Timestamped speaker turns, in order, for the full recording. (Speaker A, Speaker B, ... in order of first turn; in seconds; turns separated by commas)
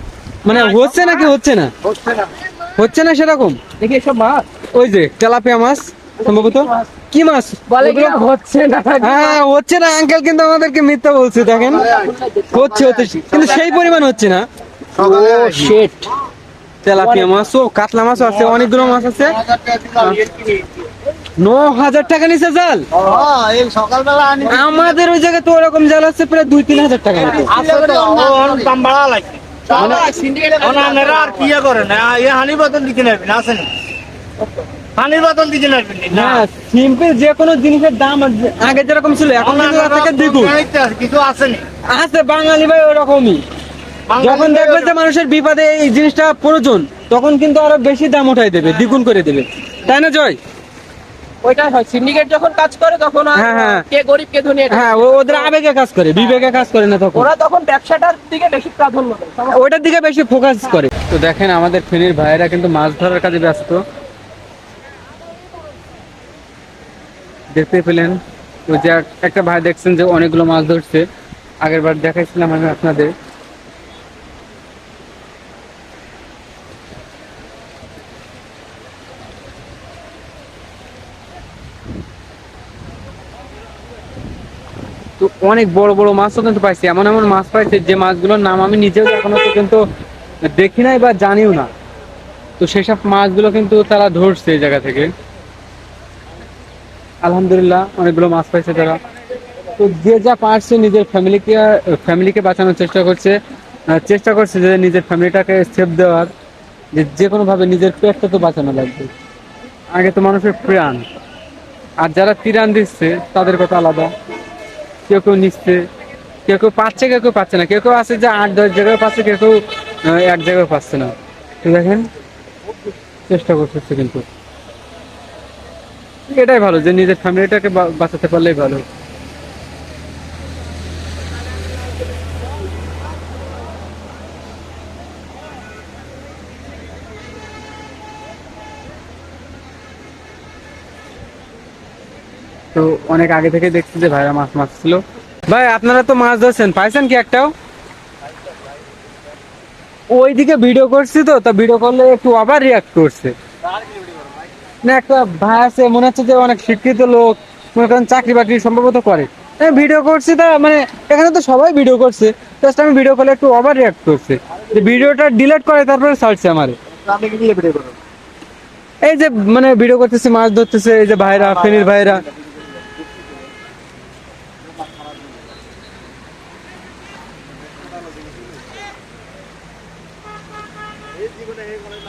Speaker A: 0.4-1.7, Speaker B: 0.6-1.1, Speaker C: 1.9-2.2, Speaker A: 2.8-3.6, Speaker B: 3.8-4.5, Speaker A: 4.7-8.2, Speaker B: 6.2-6.9, Speaker B: 7.7-9.4, Speaker A: 9.0-11.9, Speaker B: 11.6-13.8, Speaker A: 12.5-14.5, Speaker C: 14.9-15.8, Speaker B: 14.9-15.9, Speaker A: 16.8-19.4, Speaker B: 16.9-17.4, Speaker C: 19.4-20.2, Speaker B: 20.0-20.4, Speaker A: 21.4-22.9, Speaker C: 22.9-25.0, Speaker A: 24.5-27.5, Speaker B: 27.2-28.7, Speaker C: 27.5-33.7, Speaker B: 29.7-31.5, Speaker A: 29.7-30.1, Speaker C: 34.9-36.4, Speaker A: 36.1-40.5, Speaker C: 39.4-41.6, Speaker A: 41.9-43.4, Speaker C: 44.1-45.0, Speaker A: 44.2-50.4, Speaker B: 51.4-55.5, Speaker A: 53.3-53.8, Speaker A: 54.7-57.3, Speaker B: 57.1-59.6, Speaker A: 59.5-63.8, Speaker A: 67.5-71.1, Speaker A: 71.6-73.1, Speaker A: 85.2-89.8, Speaker A: 90.5-91.7, Speaker A: 92.6-95.1, Speaker A: 97.2-99.0, Speaker A: 99.8-103.4, Speaker A: 103.9-106.3, Speaker A: 106.9-109.1, Speaker A: 109.9-111.0, Speaker A: 112.0-114.1, Speaker A: 115.1-115.8, Speaker A: 116.5-122.1, Speaker A: 123.3-124.3, Speaker A: 126.3-128.8, Speaker A: 142.7-147.5, Speaker A: 150.1-153.3, Speaker A: 154.8-166.8, Speaker C: 166.9-167.9, Speaker A: 169.0-172.2, Speaker C: 171.7-172.0